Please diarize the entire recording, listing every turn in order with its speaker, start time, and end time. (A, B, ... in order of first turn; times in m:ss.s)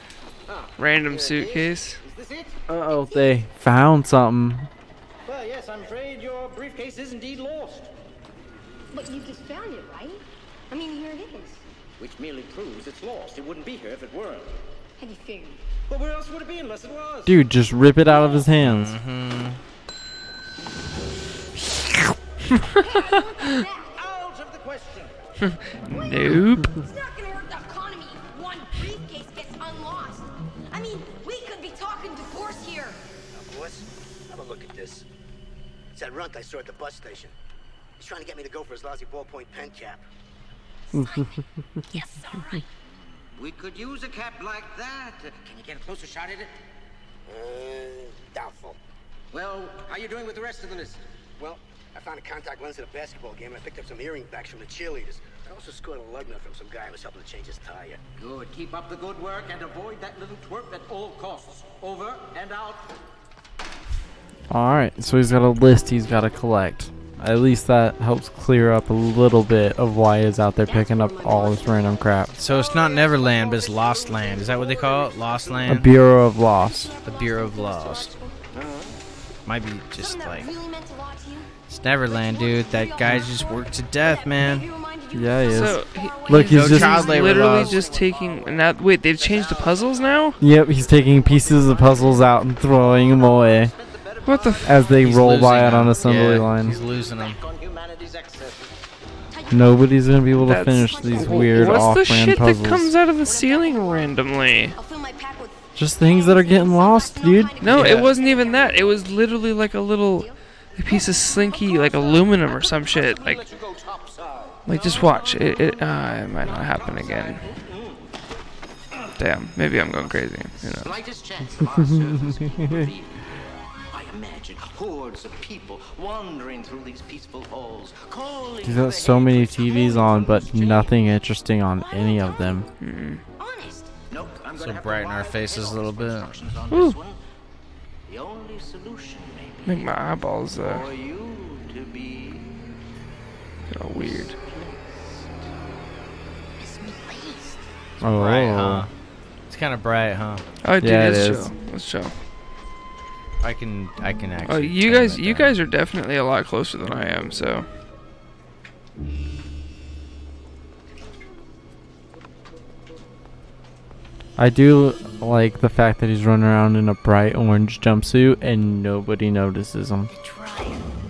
0:00.5-0:02.6 A
0:00.8-0:02.0 B
0:02.7-0:04.7 C
0:05.2-0:07.9 A
0:08.9-0:11.6 D
0:12.0-0:14.6 A
0:15.0-0:15.6 D
0:15.9-0:17.4 A
0:17.3-0:19.0 C
0:18.6-0:19.6 E
0:22.7-0:24.0 D
0:23.9-0:25.2 A
0:25.4-0:26.7 B
0:25.9-0:33.0 D
0:33.4-0:35.1 F
0:35.9-0:37.3 F
0:38.0-0:40.0 F
0:40.9-0:42.7 D
0:40.9-0:41.3 C
0:42.9-0:46.6 A
0:47.3-0:48.8 F
0:49.3-0:51.0 A
0:51.4-0:58.0 F
0:58.2-1:03.0 A
1:04.5-1:12.4 C
1:10.6-1:15.6 D
1:12.4-1:16.0 E
1:14.7-1:15.4 A
1:15.7-1:16.9 C
1:16.3-1:18.4 D
1:17.0-1:18.1 E
1:18.5-1:19.0 A
1:19.5-1:20.5 E
1:20.0-1:21.5 D
1:21.7-1:24.7 E
1:22.1-1:27.6 D
1:25.1-1:27.1 C
1:25.5-1:30.4 B
1:26.5-1:27.8 E
1:27.0-1:38.8 A
1:30.4-1:33.7 C
1:34.2-1:34.8 B
1:34.6-1:36.8 C
1:35.0-1:37.4 E
1:39.3-1:39.8 D
1:39.5-1:42.9 C
1:40.4-1:44.8 B
1:40.5-1:42.1 D
1:43.2-1:44.2 D
1:44.8-1:49.3 D
1:45.8-1:48.1 C
1:47.6-1:53.4 B
1:50.1-1:52.9 D
1:52.8-1:54.7 A
1:54.7-1:57.4 B
1:54.7-1:56.6 D
1:56.4-1:58.2 A
1:59.2-2:00.9 B
1:59.9-2:03.2 A
2:01.6-2:02.9 C
2:03.9-2:10.9 A
2:08.6-2:12.7 C
2:09.7-2:10.9 D
2:11.7-2:12.7 D
2:12.8-2:13.2 B
2:13.4-2:13.9 D
2:14.1-2:17.2 A
2:14.6-2:16.6 E
2:16.7-2:17.0 B
2:18.1-2:20.1 A
2:19.7-2:20.9 B
2:20.6-2:22.6 A
2:23.7-2:24.4 B
2:24.0-2:25.5 A
2:26.6-2:27.6 D
2:28.0-2:28.9 C
2:28.0-2:28.9 E
2:29.5-2:30.4 E
2:30.6-2:32.1 B
2:30.8-2:31.5 C
2:33.4-2:35.6 E
2:34.5-2:37.7 B
2:44.4-2:50.1 C
2:50.1-2:50.8 D